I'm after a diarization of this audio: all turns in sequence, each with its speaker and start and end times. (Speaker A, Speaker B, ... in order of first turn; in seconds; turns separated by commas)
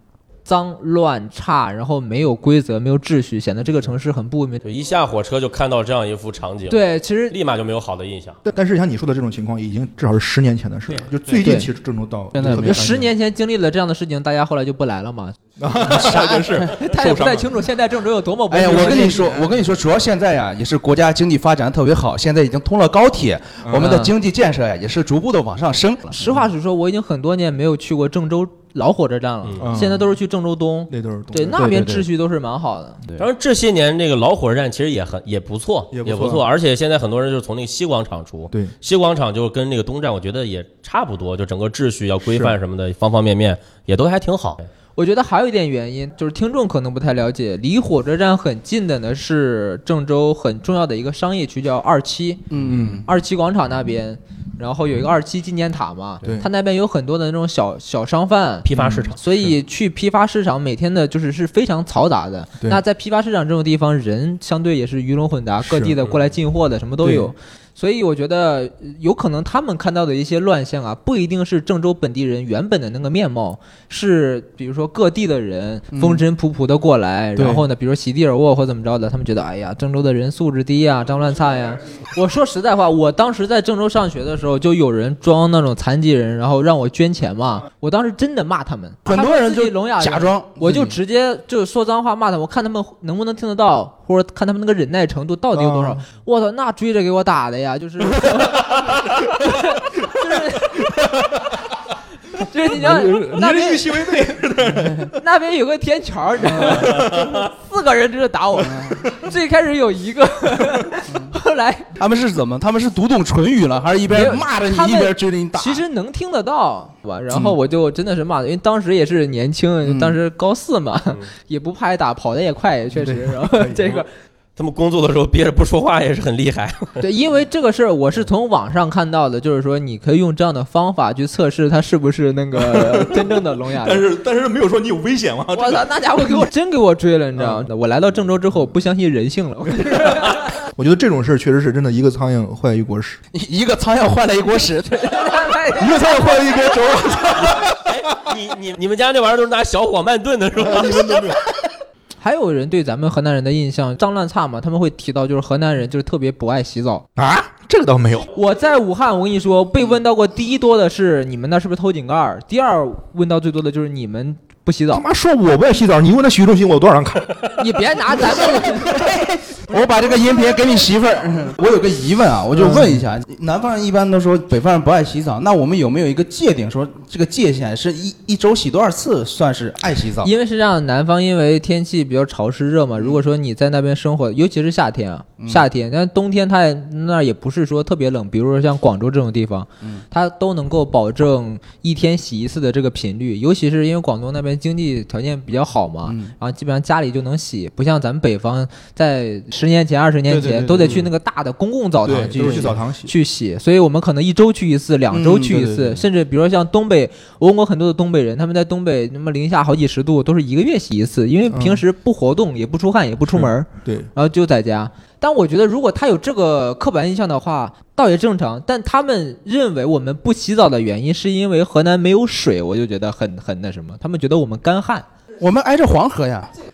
Speaker A: 0.5-4.6, Speaker B: 4.6-8.4, Speaker A: 6.7-7.3, Speaker C: 8.4-13.1, Speaker B: 10.9-11.3, Speaker A: 11.4-11.7, Speaker D: 12.3-12.9, Speaker A: 12.4-15.3, Speaker C: 15.6-17.5, Speaker D: 15.9-16.7, Speaker A: 15.9-19.5, Speaker D: 18.5-26.3, Speaker C: 23.6-24.0, Speaker A: 23.8-24.1, Speaker A: 26.1-33.0, Speaker C: 29.6-30.1, Speaker C: 30.9-31.7, Speaker D: 31.5-32.1, Speaker B: 33.2-44.6, Speaker C: 35.9-36.5, Speaker C: 42.3-42.5, Speaker A: 45.0-52.5, Speaker D: 52.5-53.0, Speaker C: 52.7-53.0, Speaker A: 53.0-100.9, Speaker B: 58.6-59.2, Speaker C: 58.8-59.1, Speaker C: 65.7-66.0, Speaker C: 67.0-67.3, Speaker D: 75.9-76.2, Speaker D: 77.3-77.6, Speaker D: 89.0-90.9, Speaker C: 95.5-96.0, Speaker C: 98.2-99.3, Speaker C: 100.0-100.2, Speaker C: 100.8-101.6, Speaker A: 102.4-104.4, Speaker C: 102.7-105.2, Speaker D: 104.7-105.0, Speaker A: 105.1-111.9, Speaker C: 106.6-107.4, Speaker D: 108.6-109.0, Speaker D: 112.0-115.8, Speaker A: 114.1-124.1, Speaker D: 119.8-120.2, Speaker C: 123.0-124.0, Speaker B: 124.5-127.0, Speaker A: 127.0-134.0, Speaker C: 132.6-136.5, Speaker A: 135.5-140.5, Speaker C: 139.9-143.2, Speaker D: 143.3-145.3, Speaker A: 145.0-146.7, Speaker C: 145.8-147.9, Speaker B: 147.4-151.3, Speaker C: 150.6-151.4, Speaker A: 152.2-157.0, Speaker C: 157.2-158.3, Speaker A: 158.3-165.0, Speaker C: 164.9-167.4, Speaker A: 167.6-169.1, Speaker C: 168.1-168.4, Speaker D: 168.7-180.3, Speaker C: 172.5-173.0, Speaker A: 180.2-225.0, Speaker D: 185.4-185.6, Speaker D: 196.1-196.3, Speaker D: 200.3-201.1, Speaker C: 202.0-203.1, Speaker D: 202.3-202.7, Speaker D: 205.1-206.0, Speaker C: 211.5-211.8, Speaker C: 213.3-214.1, Speaker D: 225.4-226.5